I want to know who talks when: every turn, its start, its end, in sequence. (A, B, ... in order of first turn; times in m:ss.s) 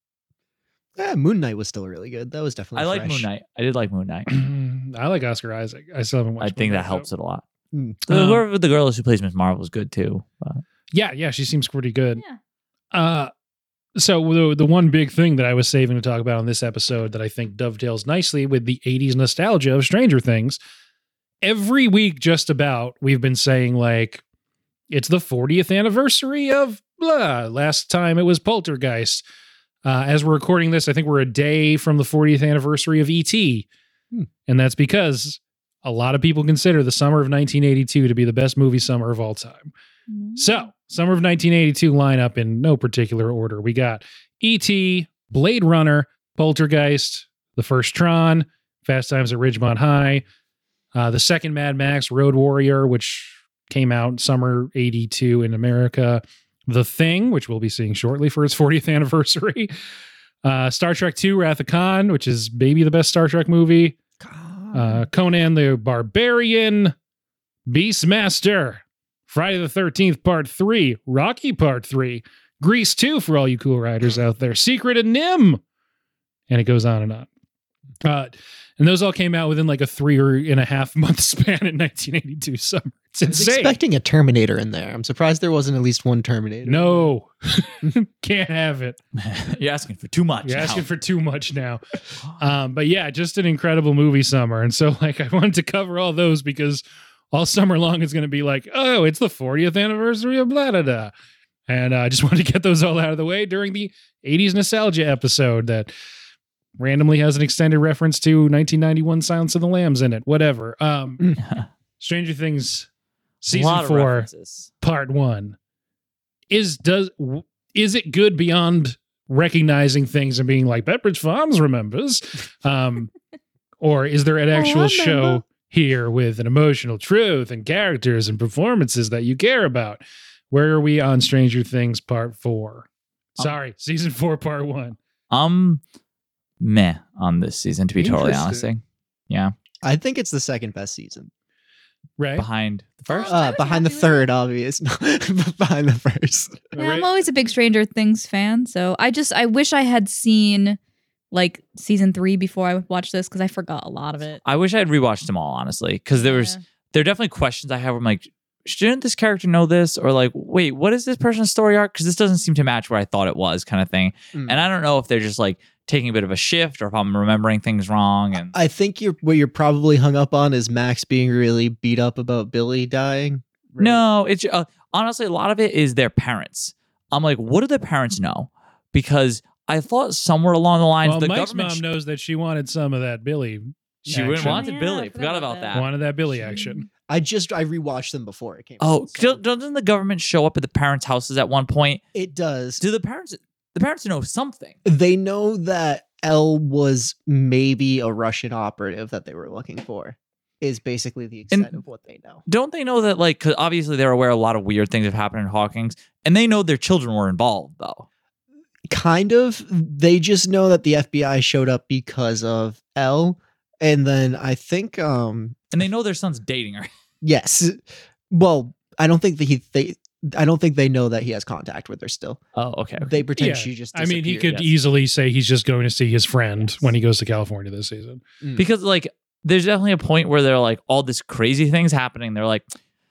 0:01.0-0:03.3 A
0:02.8-0:04.3 B
0:04.3-0:07.1 C
0:06.4-0:07.4 B
0:07.7-0:08.0 A
0:08.1-0:10.6 B
0:08.1-0:08.4 C
0:10.9-0:12.2 C
0:12.9-0:13.3 C
0:14.0-0:20.6 C
0:21.4-0:24.2 C
0:24.9-0:29.2 C
0:29.8-0:33.7 C
0:34.5-0:39.7 C
0:40.1-0:40.7 D
0:40.4-0:50.2 C
0:50.9-0:59.7 C
1:00.4-1:04.0 C
1:04.2-1:05.1 A
1:04.7-1:07.0 C
1:07.7-1:15.6 C
1:16.5-1:17.3 C
1:18.0-1:23.8 C
1:23.3-1:27.1 A
1:26.7-1:29.0 C
1:29.2-1:30.8 B
1:30.4-1:31.8 C
1:32.4-1:41.1 C
1:41.7-1:45.9 C
1:46.8-1:51.3 C
1:52.0-1:52.9 C
1:53.4-1:54.3 C
1:53.4-1:54.7 B
1:54.8-1:55.6 C
1:56.5-2:03.1 C
2:03.8-2:12.9 C
2:04.5-2:05.4 D
2:13.4-2:15.0 C
2:15.3-2:15.8 B
2:16.6-2:19.5 B
2:18.0-2:18.7 C
2:19.8-2:21.3 A
2:22.2-2:22.5 C
2:22.4-2:23.4 B
2:23.1-2:24.3 D
2:23.3-2:26.7 A
2:26.7-2:27.1 C
2:26.8-2:30.8 D
2:31.3-2:34.4 D
2:34.4-2:48.6 B
2:36.2-2:36.6 D
2:44.3-2:44.6 A
2:48.5-2:54.0 A
2:53.8-3:01.8 B
3:01.0-3:04.6 C
3:04.0-3:04.5 A
3:04.1-3:05.8 B
3:04.4-3:05.8 D
3:05.7-3:06.8 C
3:06.4-3:06.8 D
3:07.1-3:09.4 A
3:08.8-3:12.0 B
3:12.2-3:12.8 A
3:12.8-3:14.8 B
3:14.8-3:22.4 A
3:22.5-3:28.1 B
3:28.9-3:35.6 A
3:35.7-3:36.9 B
3:37.2-3:42.4 A
3:42.6-3:43.2 B
3:43.0-3:44.6 A
3:43.4-3:48.2 C
3:48.6-3:52.7 B